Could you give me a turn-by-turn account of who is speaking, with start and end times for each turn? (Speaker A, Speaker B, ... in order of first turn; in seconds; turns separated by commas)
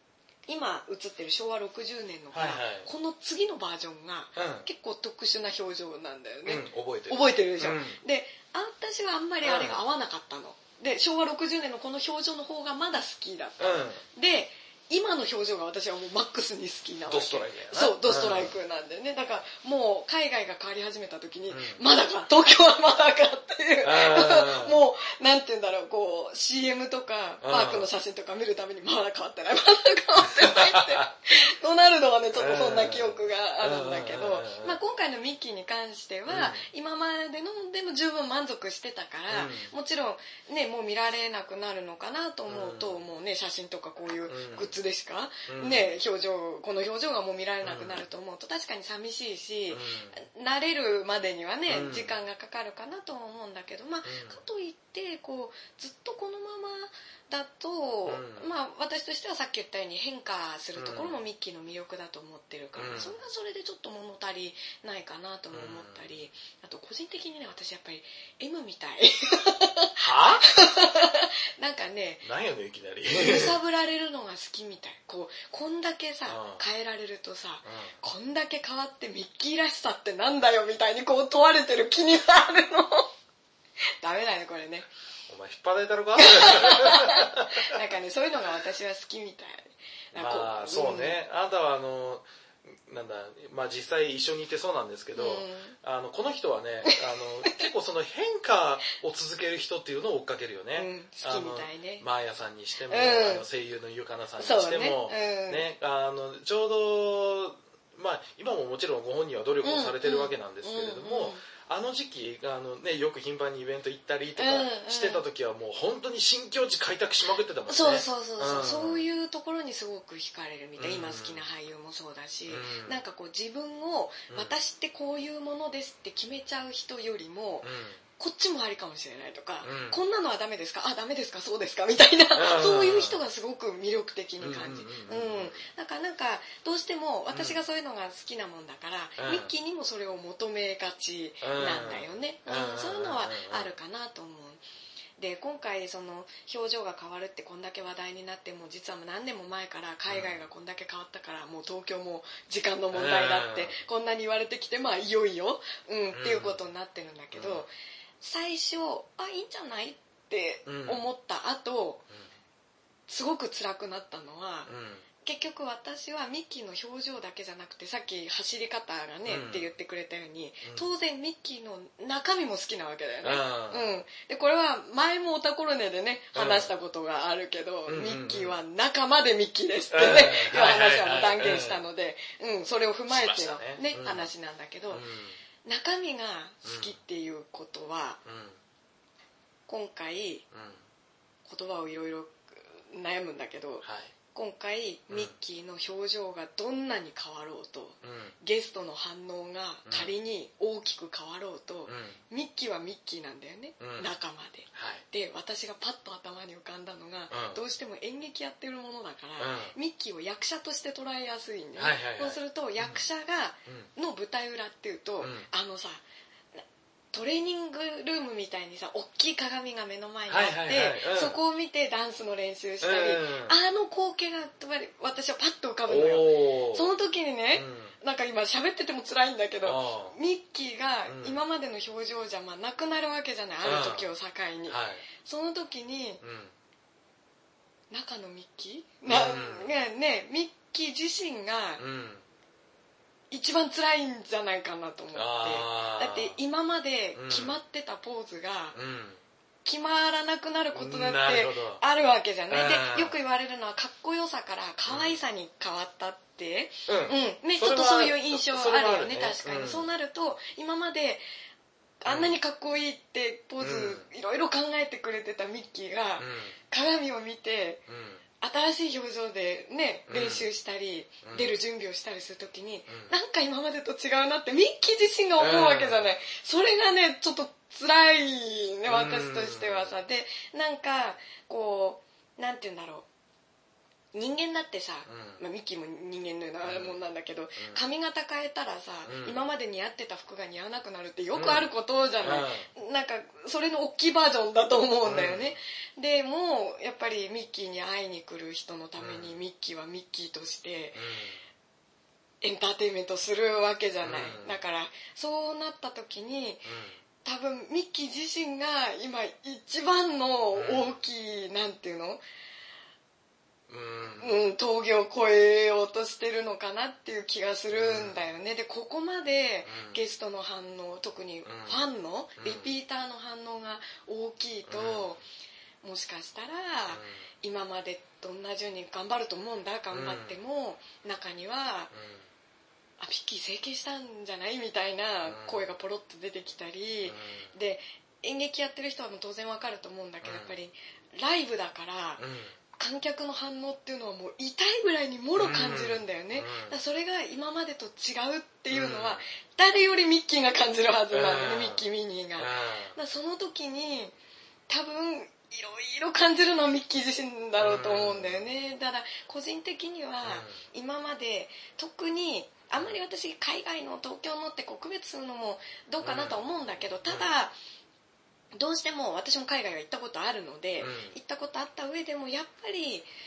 Speaker A: 0.5-72.3, Speaker B: 2.3-2.9, Speaker B: 4.4-4.7, Speaker B: 6.5-8.0, Speaker B: 9.4-9.8, Speaker B: 13.6-14.0, Speaker B: 17.1-18.5, Speaker B: 21.5-21.8, Speaker B: 23.8-24.8, Speaker B: 27.4-27.9, Speaker B: 30.4-31.1, Speaker B: 32.3-34.8, Speaker B: 36.3-36.6, Speaker B: 39.3-39.7, Speaker B: 42.5-43.0, Speaker B: 44.3-44.8, Speaker B: 45.5-45.9, Speaker B: 47.6-48.0, Speaker B: 49.7-50.2, Speaker B: 51.7-52.2, Speaker B: 54.0-54.4, Speaker B: 58.1-58.5, Speaker B: 60.8-61.2, Speaker B: 62.8-63.2, Speaker B: 65.5-66.1, Speaker B: 70.0-70.5, Speaker B: 72.2-73.6, Speaker A: 73.1-83.1, Speaker B: 76.3-76.7, Speaker B: 77.7-77.9, Speaker A: 84.0-84.9, Speaker B: 85.3-87.7, Speaker A: 86.2-91.2, Speaker B: 90.1-119.0, Speaker A: 95.2-95.8, Speaker A: 96.8-97.6, Speaker A: 100.8-102.0, Speaker A: 102.9-103.5, Speaker A: 104.4-105.7, Speaker A: 109.6-111.4, Speaker A: 114.4-115.2, Speaker A: 117.7-144.6, Speaker B: 120.8-121.5, Speaker B: 122.5-123.0, Speaker B: 127.6-128.0, Speaker B: 129.6-130.0, Speaker B: 132.3-133.2, Speaker B: 134.4-135.6, Speaker B: 137.3-137.6, Speaker B: 139.2-139.5, Speaker B: 141.4-143.7, Speaker A: 145.2-162.1, Speaker B: 150.1-150.3, Speaker B: 152.9-153.8, Speaker B: 156.1-156.6, Speaker B: 157.3-157.7, Speaker B: 160.7-161.0, Speaker A: 163.1-164.7, Speaker B: 164.7-165.1, Speaker A: 165.2-185.1, Speaker B: 169.3-169.7, Speaker B: 173.2-173.9, Speaker B: 176.3-176.7, Speaker B: 177.9-178.6, Speaker B: 179.9-181.8, Speaker B: 183.1-184.3, Speaker B: 184.9-185.4, Speaker A: 185.7-188.2, Speaker B: 186.6-186.9, Speaker B: 188.2-188.6, Speaker A: 189.7-190.4, Speaker B: 190.5-190.8, Speaker A: 191.5-216.0, Speaker B: 193.8-194.1, Speaker B: 198.0-198.3, Speaker B: 199.9-200.1, Speaker B: 201.9-202.2, Speaker B: 203.8-204.1, Speaker B: 204.7-205.0, Speaker B: 207.3-207.6, Speaker B: 209.4-209.7, Speaker B: 211.8-213.0, Speaker B: 215.2-215.5, Speaker A: 216.6-236.2, Speaker B: 220.3-221.4, Speaker B: 222.8-223.6, Speaker B: 225.9-226.9, Speaker B: 227.5-227.9, Speaker B: 229.6-230.2, Speaker B: 231.1-231.4, Speaker B: 233.6-234.1, Speaker B: 234.7-235.1, Speaker B: 236.2-236.5, Speaker A: 237.9-241.8, Speaker B: 239.1-239.7, Speaker B: 241.8-242.2, Speaker A: 243.3-248.8, Speaker B: 245.2-246.4, Speaker B: 247.2-247.6, Speaker B: 248.7-249.2, Speaker A: 249.7-261.2, Speaker B: 250.8-251.8, Speaker B: 252.5-253.2, Speaker B: 254.9-255.2, Speaker B: 256.9-259.9, Speaker A: 262.0-267.9, Speaker B: 262.1-262.3, Speaker B: 263.6-264.0, Speaker B: 266.2-266.6, Speaker B: 267.9-268.2, Speaker A: 268.4-283.1, Speaker B: 270.1-270.5, Speaker B: 271.2-271.6, Speaker B: 275.4-276.1, Speaker B: 278.9-280.0, Speaker A: 284.1-301.1, Speaker B: 285.1-285.4, Speaker B: 286.6-287.0, Speaker B: 289.1-289.4, Speaker B: 291.3-291.7, Speaker B: 292.2-292.7, Speaker B: 295.0-295.5, Speaker B: 299.0-299.3, Speaker B: 300.9-301.4, Speaker A: 302.4-306.7, Speaker B: 304.0-304.6, Speaker B: 306.7-307.0, Speaker A: 307.2-312.2, Speaker B: 310.5-310.9, Speaker B: 313.7-314.4, Speaker A: 314.2-325.2, Speaker B: 317.7-318.2, Speaker B: 319.7-320.0, Speaker B: 321.4-321.8, Speaker B: 322.4-322.7, Speaker B: 324.7-325.2, Speaker A: 325.8-331.9, Speaker B: 326.9-327.2, Speaker B: 329.9-330.4, Speaker B: 331.9-332.3, Speaker A: 333.0-342.2, Speaker B: 335.2-335.7, Speaker B: 337.1-337.5, Speaker B: 340.2-340.5, Speaker B: 342.2-342.6, Speaker A: 342.8-354.1, Speaker B: 345.4-346.8, Speaker B: 348.7-349.2, Speaker B: 351.1-351.8, Speaker B: 352.4-353.0, Speaker A: 354.7-367.6, Speaker B: 357.6-358.4, Speaker B: 360.2-360.6, Speaker B: 366.0-366.4, Speaker B: 367.1-367.3, Speaker A: 368.5-373.1, Speaker B: 370.8-371.2